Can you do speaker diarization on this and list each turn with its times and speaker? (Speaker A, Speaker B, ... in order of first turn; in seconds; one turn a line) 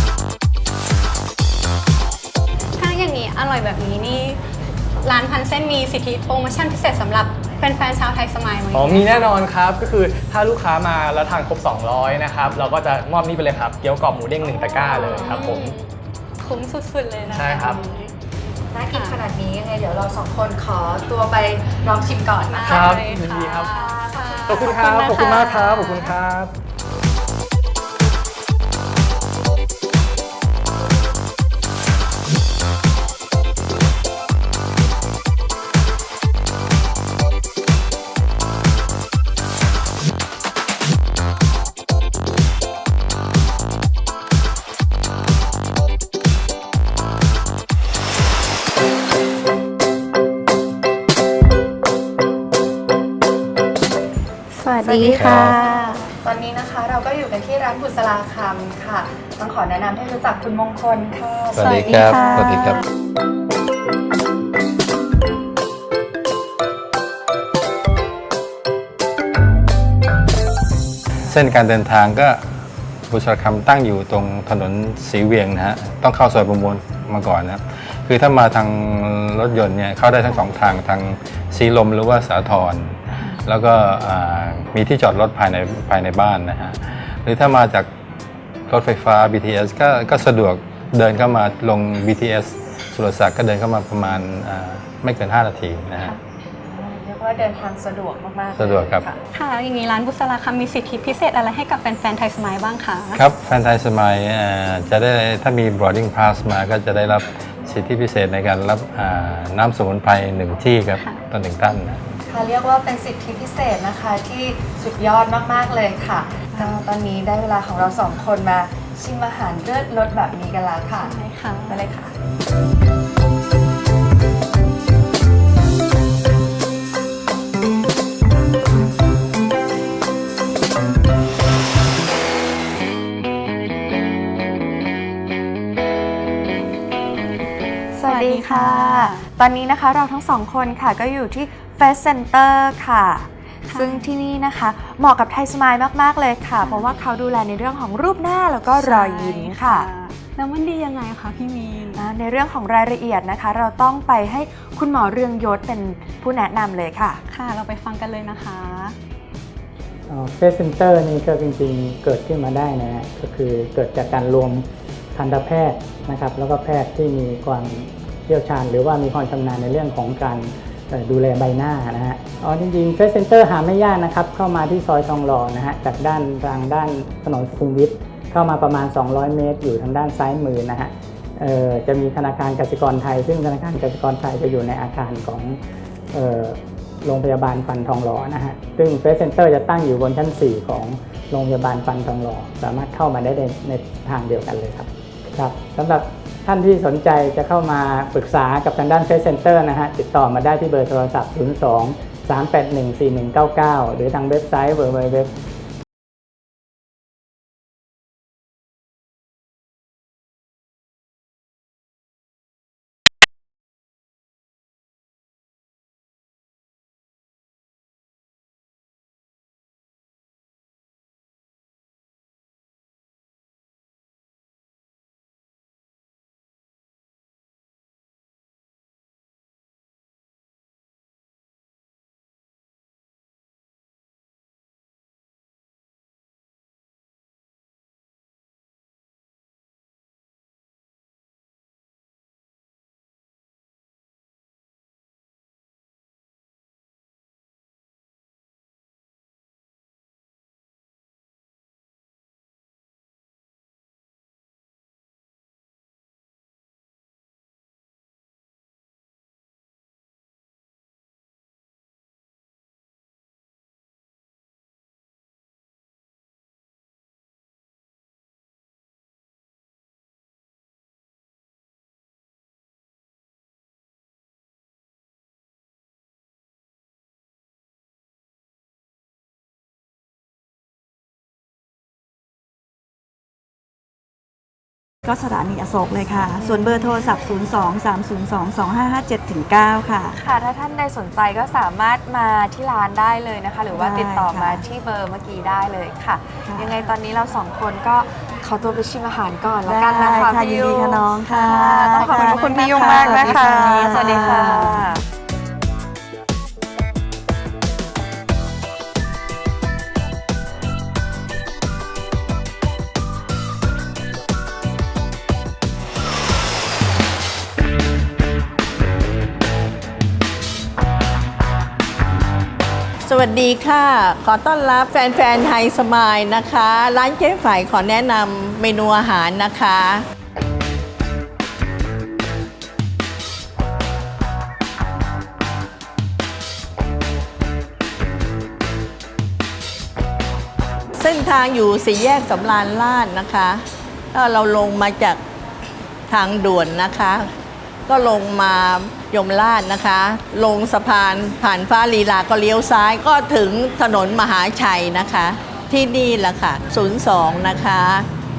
Speaker A: 2.8-4.4
Speaker A: 5.0-9.3
Speaker B: 8.7-15.7
Speaker A: 14.5-15.9
Speaker C: 15.1-15.4
Speaker A: 16.4-17.9
Speaker C: 17.3-18.1
Speaker B: 17.3-17.8
Speaker C: 18.7-25.4
Speaker A: 18.9-19.2
Speaker A: 22.5-26.1
Speaker B: 22.7-23.7
Speaker B: 24.5-26.5
Speaker A: 54.6-56.0
Speaker D: 54.8-55.5
Speaker E: 55.0-55.6
Speaker C: 56.2-62.5
Speaker E: 61.5-62.8
Speaker A: 61.9-62.8
Speaker E: 71.2-72.4
Speaker E: 73.1-87.9
Speaker E: 88.7-96.2
Speaker C: 96.7-99.2
Speaker E: 98.5-99.0
Speaker A: 99.3-103.2
Speaker E: 103.1-112.0
Speaker A: 111.0-111.2
Speaker C: 112.3-122.1
Speaker A: 121.0-121.8
Speaker A: 138.0-139.2
Speaker C: 138.0-149.9
Speaker A: 143.7-144.1
Speaker A: 146.6-147.0
Speaker A: 148.8-152.0
Speaker C: 151.9-157.2
Speaker A: 157.3-158.9
Speaker F: 160.1-185.6
Speaker F: 186.1-205.3
Speaker D: 285.0-290.2
Speaker C: 286.4-286.9
Speaker C: 290.1-305.0
Speaker D: 293.7-294.6
Speaker D: 296.4-296.8
Speaker D: 299.6-304.9
Speaker G: 323.0-329.9
Speaker G: 340.9-343.5
Speaker G: 344.1-345.1
Speaker G: 346.1-347.2
Speaker G: 347.9-357.9